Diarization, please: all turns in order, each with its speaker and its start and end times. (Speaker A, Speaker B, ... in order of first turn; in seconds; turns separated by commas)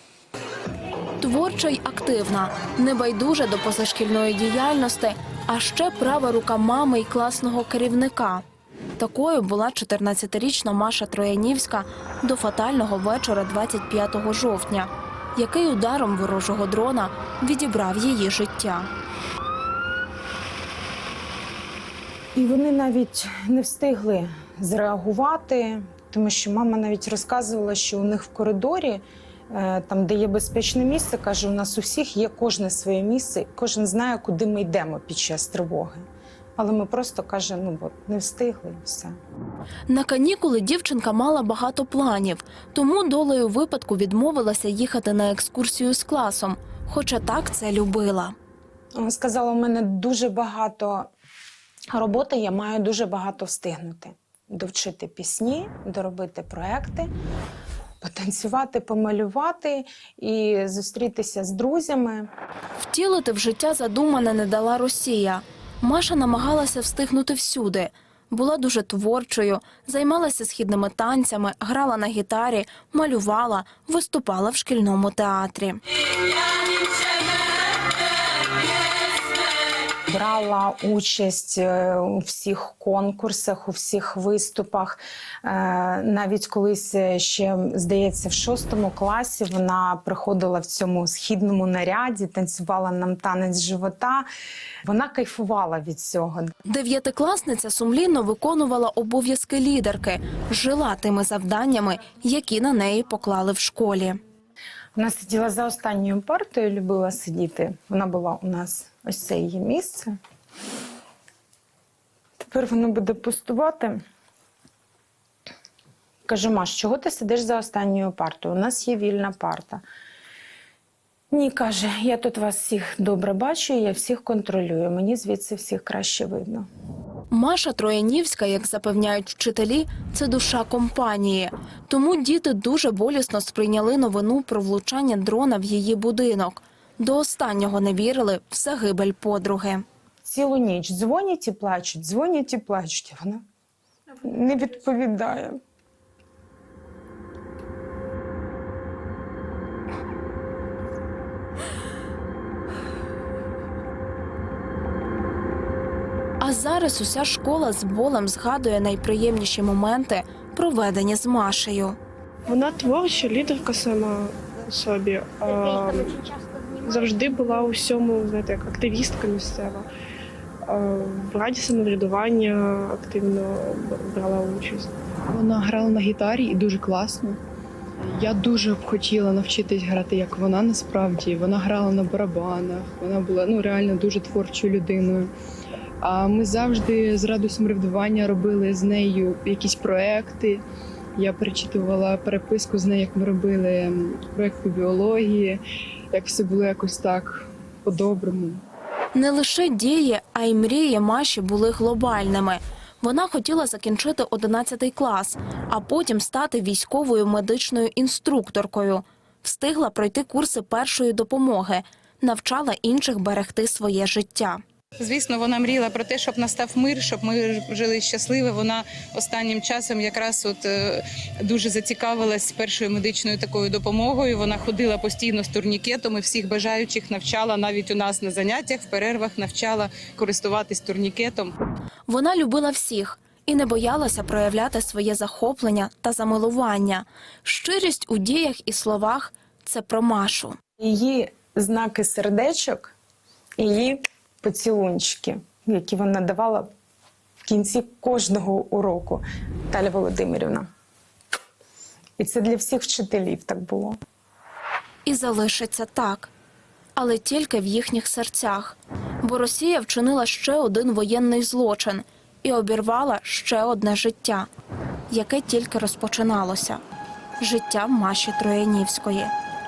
Speaker A: 1.2-8.4, Speaker A: 9.0-18.9, Speaker B: 22.3-36.0, Speaker B: 36.6-39.1, Speaker A: 39.9-48.3, Speaker B: 49.0-51.1, Speaker B: 51.9-57.1, Speaker B: 58.0-62.3, Speaker A: 62.8-75.8, Speaker B: 80.1-94.3, Speaker B: 94.8-96.5, Speaker A: 96.7-104.2, Speaker B: 105.0-110.1, Speaker B: 112.4-114.0, Speaker B: 116.2-119.8, Speaker B: 121.3-126.7, Speaker A: 127.3-139.8, Speaker B: 140.2-143.4, Speaker B: 144.2-145.6, Speaker A: 156.4-162.0, Speaker C: 162.5-166.2, Speaker C: 166.8-169.9, Speaker C: 170.7-174.9, Speaker D: 175.3-177.4, Speaker D: 178.0-185.3, Speaker D: 186.0-190.6, Speaker D: 191.2-195.6, Speaker D: 196.1-198.6, Speaker A: 199.1-214.6, Speaker E: 215.0-231.5, Speaker A: 232.1-240.6, Speaker B: 240.8-242.9, Speaker B: 243.6-246.7, Speaker B: 247.4-250.7, Speaker B: 252.2-254.0, Speaker A: 255.1-256.3, Speaker A: 257.0-264.5, Speaker A: 265.1-266.8, Speaker A: 267.4-269.3